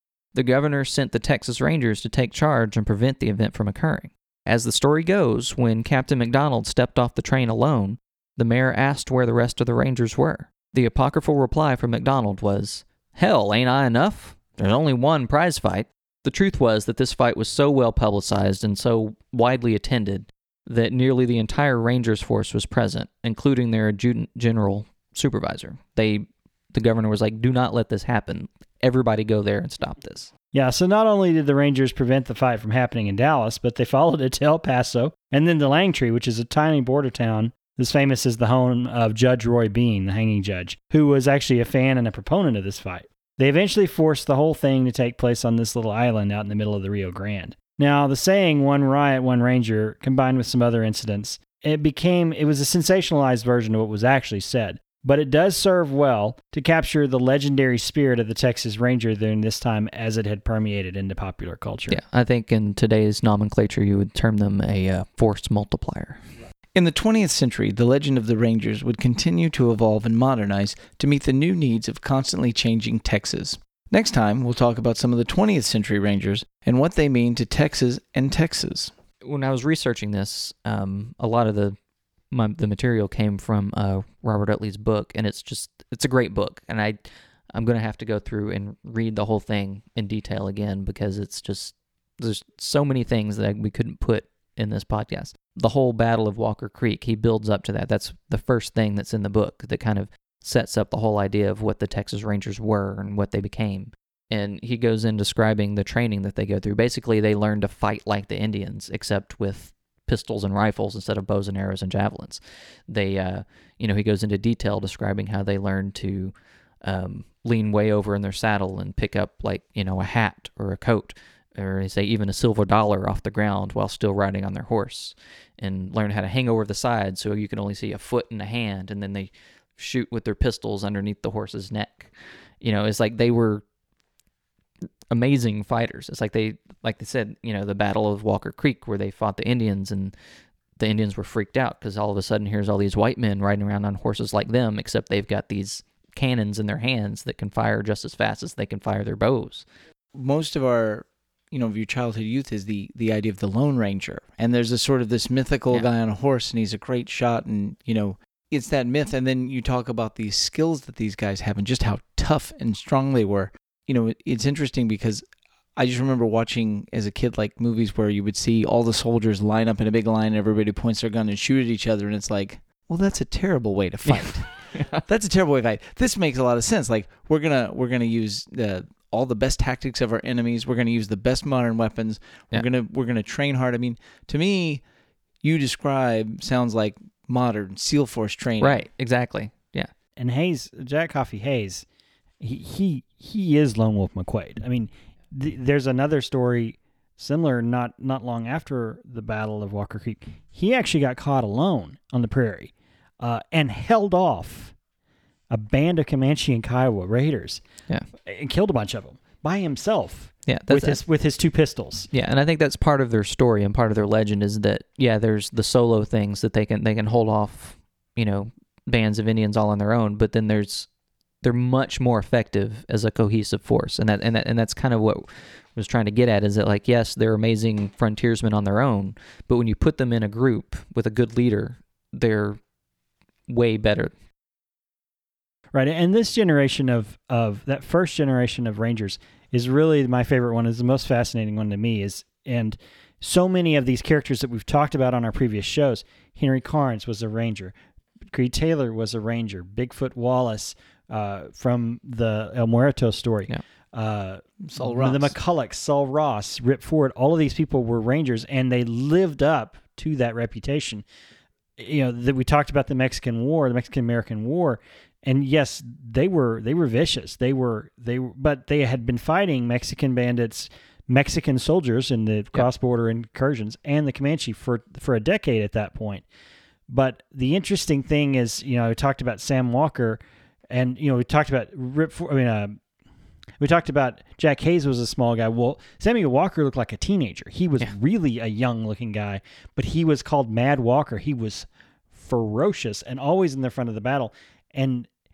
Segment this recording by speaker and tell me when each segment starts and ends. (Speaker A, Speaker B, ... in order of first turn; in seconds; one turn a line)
Speaker A: 0.3-30.3
Speaker B: 30.5-62.0
Speaker A: 61.9-66.2
Speaker C: 66.8-78.9
Speaker A: 79.2-81.8
Speaker A: 82.3-87.0
Speaker A: 87.5-116.3
Speaker A: 116.8-133.6
Speaker A: 135.1-140.1
Speaker A: 140.8-149.7
Speaker C: 150.2-165.2
Speaker C: 165.8-184.8
Speaker A: 174.1-175.0
Speaker C: 185.4-188.8
Speaker A: 188.6-189.9
Speaker B: 190.2-191.9
Speaker B: 192.4-204.8
Speaker B: 205.5-207.6
Speaker B: 208.2-212.1
Speaker A: 210.5-211.0
Speaker A: 212.1-220.9
Speaker A: 221.4-232.6
Speaker A: 233.5-234.1
Speaker B: 235.7-247.8
Speaker B: 248.3-261.1
Speaker C: 254.6-255.4
Speaker B: 261.8-276.2
Speaker B: 276.9-280.2
Speaker B: 280.7-282.8
Speaker B: 283.6-295.1